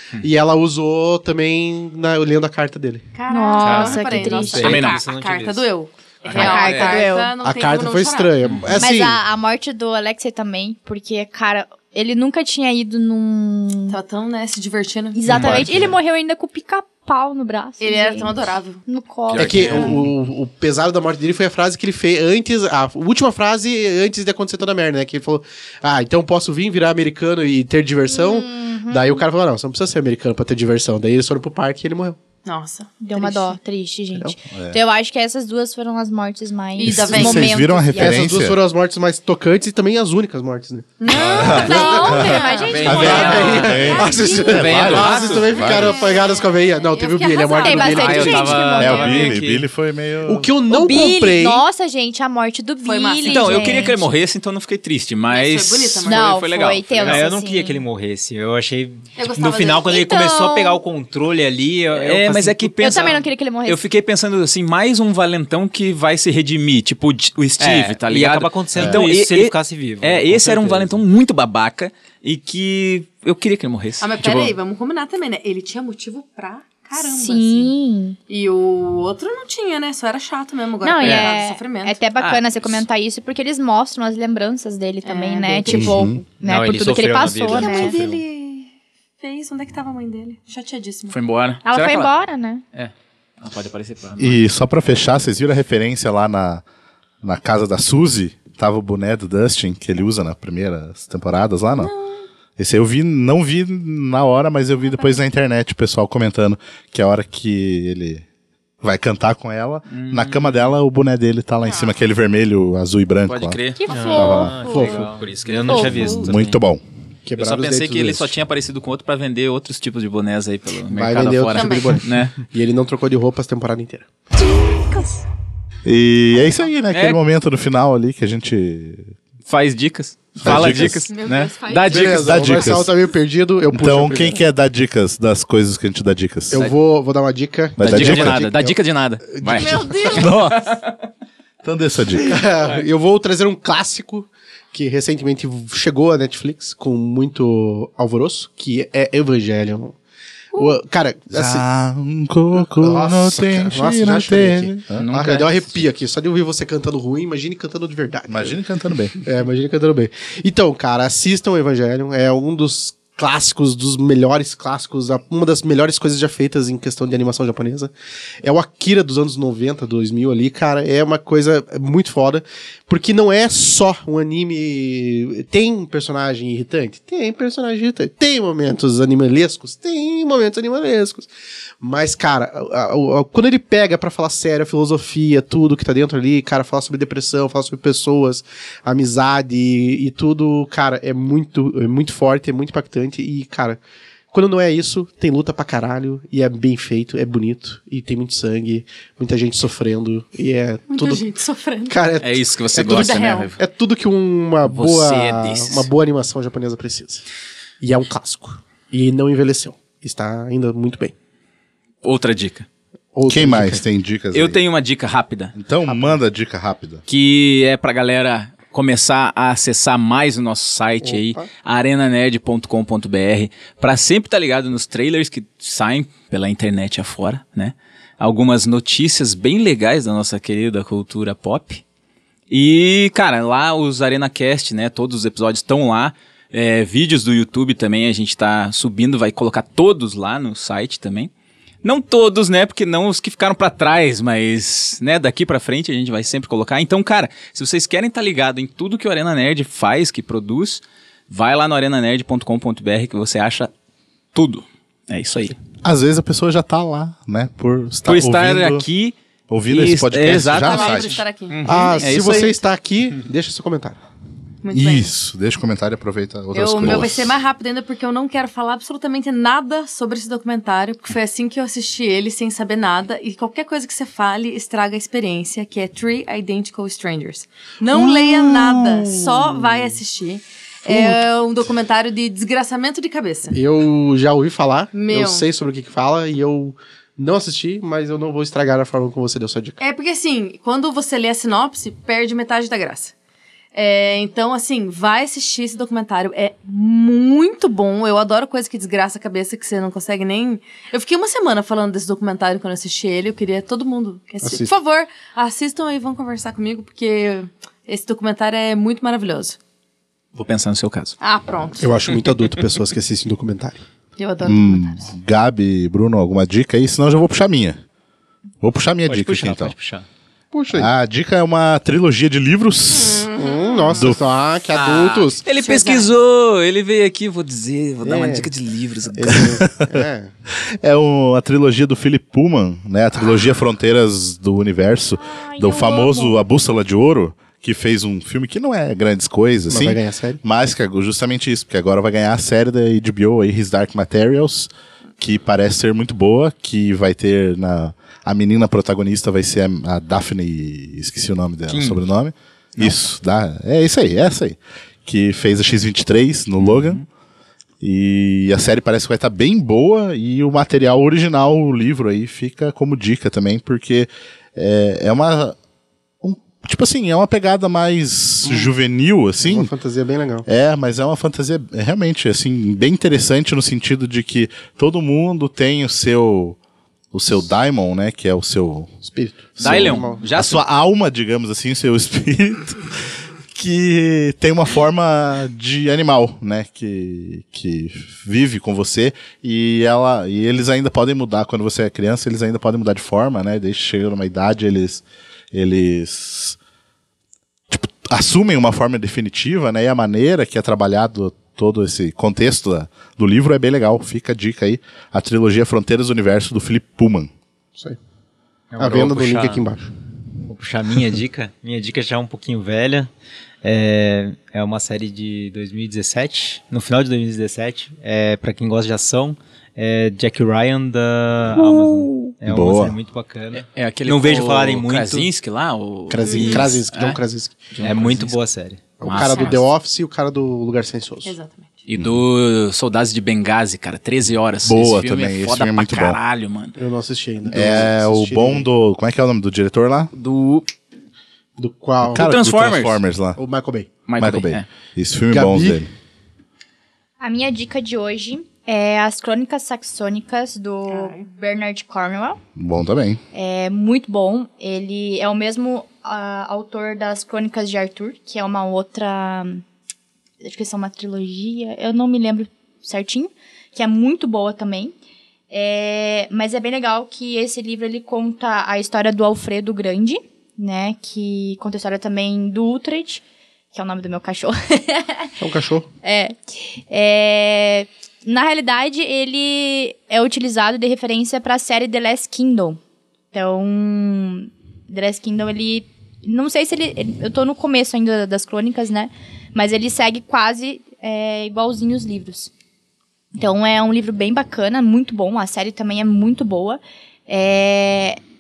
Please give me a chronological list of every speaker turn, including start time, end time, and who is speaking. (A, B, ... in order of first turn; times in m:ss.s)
0:00.2-0:03.1 A
0:03.1-0:08.4 B
0:03.3-0:04.7 C
0:03.6-0:05.7 D
0:04.6-0:05.0 E
0:06.3-0:07.0 E
0:06.3-0:07.3 C
0:07.4-0:09.2 A
0:08.8-0:14.0 C
0:13.9-0:15.3 B
0:15.1-0:19.9 C
0:15.3-0:15.9 F
0:17.8-0:18.8 B
0:19.3-0:20.0 E
0:19.4-0:32.2 A
0:19.5-0:19.8 F
0:28.1-0:29.2 C
0:32.4-0:33.6 B
0:33.0-0:38.2 C
0:34.5-0:34.8 F
0:36.8-0:37.6 B
0:36.8-0:38.6 F
0:38.0-0:42.2 A
0:41.0-0:48.4 B
0:41.1-0:42.3 F
0:41.3-0:41.8 E
0:41.6-0:44.2 C
0:42.6-0:45.6 E
0:42.8-0:46.0 F
0:43.0-0:48.6 A
0:47.6-0:49.4 C
0:47.8-0:49.6 E
0:48.8-0:50.5 F
0:50.2-0:51.6 A
0:50.7-0:54.0 C
0:52.8-0:54.0 B
0:53.2-0:57.2 E
0:55.3-0:56.3 B
0:56.0-0:57.8 C
0:57.0-1:03.2 D
0:59.2-1:00.6 B
0:59.9-1:00.8 C
1:01.9-1:14.5 E
1:02.8-1:03.8 C
1:07.6-1:11.0 D
1:08.8-1:09.0 F
1:14.0-1:17.7 B
1:17.0-1:18.2 C
1:18.3-1:22.0 B
1:20.8-1:28.0 C
1:21.0-1:21.3 E
1:22.2-1:22.8 E
1:25.0-1:26.0 B
1:25.7-1:26.2 F
1:26.4-1:28.2 D
1:27.4-1:31.1 B
1:31.1-1:32.1 E
1:31.6-1:32.6 C
1:32.7-1:34.4 E
1:34.2-1:36.6 F
1:37.2-1:41.9 F
1:41.7-1:42.2 B
1:42.6-1:48.2 F
1:48.8-1:53.6 F
1:49.9-1:50.7 E
1:51.6-1:52.0 B
1:53.3-1:53.9 E
1:53.8-1:55.0 C
1:53.9-1:54.9 B
1:53.9-1:56.5 D
1:54.1-1:54.6 F
1:54.7-1:55.8 E
1:55.7-1:56.1 B
1:55.7-1:56.2 C
1:56.0-1:56.8 F
1:57.2-1:58.3 A
1:57.4-2:02.4 E
2:00.9-2:04.1 A
2:01.5-2:02.0 B
2:04.4-2:05.2 B
2:05.8-2:09.1 F
2:06.9-2:07.2 E
2:09.5-2:12.6 E
2:10.4-2:11.0 F
2:11.0-2:12.2 B
2:11.9-2:14.4 A
2:12.1-2:12.9 F
2:13.7-2:16.7 F
2:16.5-2:18.8 A
2:17.8-2:18.4 F
2:17.8-2:21.1 E
2:19.3-2:20.2 A
2:19.5-2:20.4 B
2:20.1-2:20.6 F
2:21.6-2:22.4 F
2:22.2-2:30.0 A
2:30.5-2:31.6 A
2:31.3-2:35.0 F
2:32.5-2:38.6 A
2:35.0-2:35.8 E
2:38.3-2:39.2 F
2:39.2-3:01.3 A
3:01.8-3:13.8 A
3:14.3-3:21.2 A
3:20.9-3:22.0 B
3:21.9-3:27.2 A
3:22.2-3:23.6 E
3:24.6-3:25.9 E
3:27.8-3:31.1 A
3:32.0-3:32.7 E
3:33.1-3:33.8 A
3:33.3-3:34.6 F
3:34.3-3:35.5 E
3:35.5-3:37.0 F
3:35.8-3:36.2 A
3:37.1-3:51.8 E
3:41.0-3:41.4 A
3:52.5-4:01.3 E
4:01.8-4:13.7 E
4:14.3-4:15.5 E
4:15.8-4:18.8 F
4:18.0-4:19.1 E
4:19.5-4:21.2 F
4:19.7-4:22.6 E
4:20.4-4:22.0 B
4:21.6-4:24.0 A
4:24.6-4:25.1 B
4:24.7-4:27.3 F
4:26.5-4:43.6 B
4:38.0-4:39.9 A
4:40.8-4:41.2 A
4:43.5-4:49.8 A
4:44.9-4:45.5 B
4:49.8-4:53.1 B
4:53.7-5:09.6 B
5:04.4-5:04.7 A
5:10.3-5:11.2 E
5:11.2-5:11.9 B
5:11.8-5:13.8 A
5:14.2-5:15.0 B
5:14.4-5:17.8 F
5:18.6-5:19.7 F
5:19.0-5:20.0 D
5:20.5-5:20.9 A
5:20.7-5:23.3 F
5:22.9-5:24.0 B
5:23.3-5:25.4 A
5:24.0-5:24.2 F
5:24.7-5:29.6 E
5:25.5-5:26.1 B
5:28.0-5:28.5 A
5:29.1-5:30.3 A
5:29.3-5:30.0 F
5:30.6-5:57.0 F
5:35.2-5:36.4 C
5:39.7-5:40.4 A
5:51.7-5:52.0 E
5:56.6-5:57.0 E
5:57.8-6:05.6 F
6:06.2-6:09.7 F
6:08.4-6:08.7 A
6:09.4-6:10.5 A
6:10.4-6:16.6 F
6:17.1-6:18.9 F
6:19.0-6:20.2 A
6:19.6-6:22.9 F
6:19.6-6:20.6 E
6:23.5-6:36.6 F
6:37.7-6:47.3 F
6:48.7-6:49.6 D
6:48.8-6:49.9 A
6:50.5-6:53.1 D
6:53.6-7:05.3 D
7:01.8-7:02.9 F
7:03.7-7:07.2 E
7:06.1-7:07.6 A
7:06.3-7:06.7 D
7:07.7-7:08.3 E
7:07.8-7:09.0 D
7:09.0-7:11.3 A
7:09.0-7:09.7 E
7:09.2-7:09.6 B
7:11.2-7:11.7 B
7:11.9-7:16.7 E
7:14.6-7:16.2 F
7:16.8-7:18.7 A
7:17.5-7:20.1 F
7:20.1-7:20.7 E
7:21.6-7:22.2 A
7:22.1-7:23.4 F
7:22.1-7:23.0 E
7:23.4-7:23.9 A
7:24.1-7:24.6 E
7:24.2-7:25.9 F
7:25.3-7:25.8 A
7:27.2-7:32.4 C
7:30.9-7:31.3 B
7:32.6-7:33.2 F
7:33.3-7:39.6 C
7:40.4-7:44.9 C
7:45.5-7:55.3 C
7:55.4-7:55.9 A
7:56.0-8:02.8 C
8:03.3-8:12.5 C
8:13.3-8:18.2 C